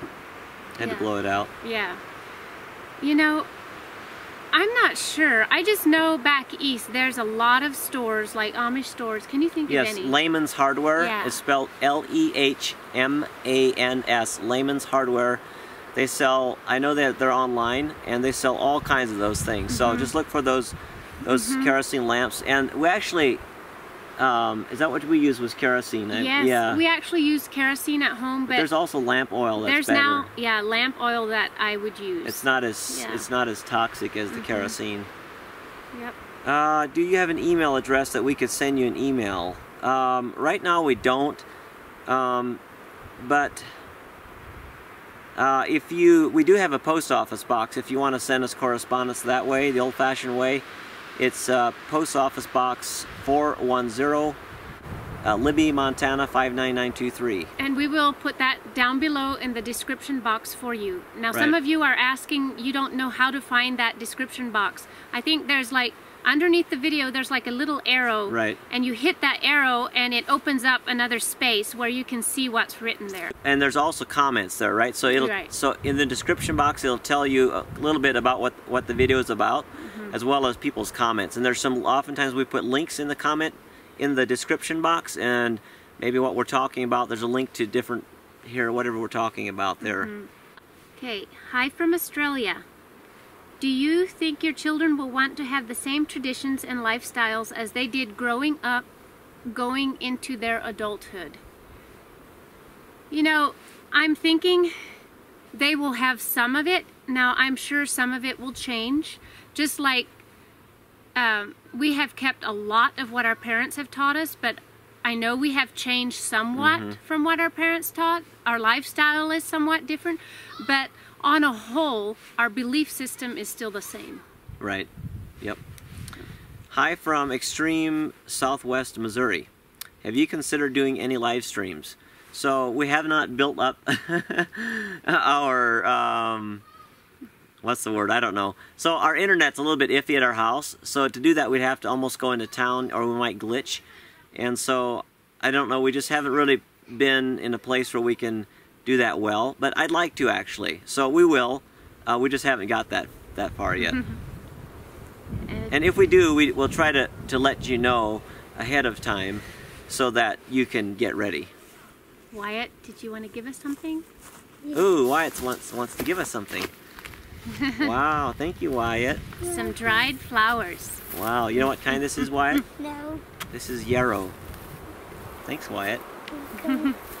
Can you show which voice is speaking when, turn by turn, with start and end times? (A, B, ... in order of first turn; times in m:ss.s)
0:00.8-0:01.5 A
0:00.8-0:01.1 B
0:01.6-0:02.0 B
0:03.0-0:03.5 B
0:04.5-0:10.2 B
0:09.7-0:15.4 A
0:11.0-0:11.4 B
0:15.9-0:23.4 A
0:19.7-0:20.1 B
0:21.2-0:21.7 B
0:24.2-0:26.8 A
0:26.1-0:28.7 B
0:28.5-0:30.3 A
0:29.6-0:33.2 B
0:32.2-0:35.1 A
0:34.3-0:34.8 B
0:36.4-0:41.4 A
0:42.1-0:42.6 A
0:43.2-0:43.7 A
0:45.3-0:50.6 A
0:51.2-0:54.4 A
0:55.2-0:57.5 A
0:57.6-1:13.3 B
1:01.3-1:01.6 A
1:08.3-1:08.6 A
1:13.4-1:30.1 A
1:15.1-1:15.5 B
1:19.8-1:20.1 B
1:29.8-1:30.3 B
1:31.0-1:32.6 B
1:33.6-1:38.9 B
1:39.4-1:41.4 B
1:43.1-1:44.7 B
1:45.5-1:50.2 B
1:51.1-2:04.2 B
1:56.6-1:57.0 A
2:04.6-2:04.9 A
2:06.7-2:09.5 A
2:10.0-2:16.6 A
2:17.6-2:34.0 A
2:33.8-2:34.2 B
2:35.5-2:35.8 B
2:35.7-2:41.5 A
2:42.3-2:44.0 B
2:44.7-2:46.7 A
2:47.5-2:47.9 B
2:47.8-2:49.3 A
2:49.4-2:50.1 C
2:49.4-2:51.0 B
2:51.1-2:52.6 A
2:52.6-2:53.2 C
2:53.5-2:54.4 A
2:55.4-2:56.0 A
2:56.3-2:56.9 C
2:56.6-2:57.0 B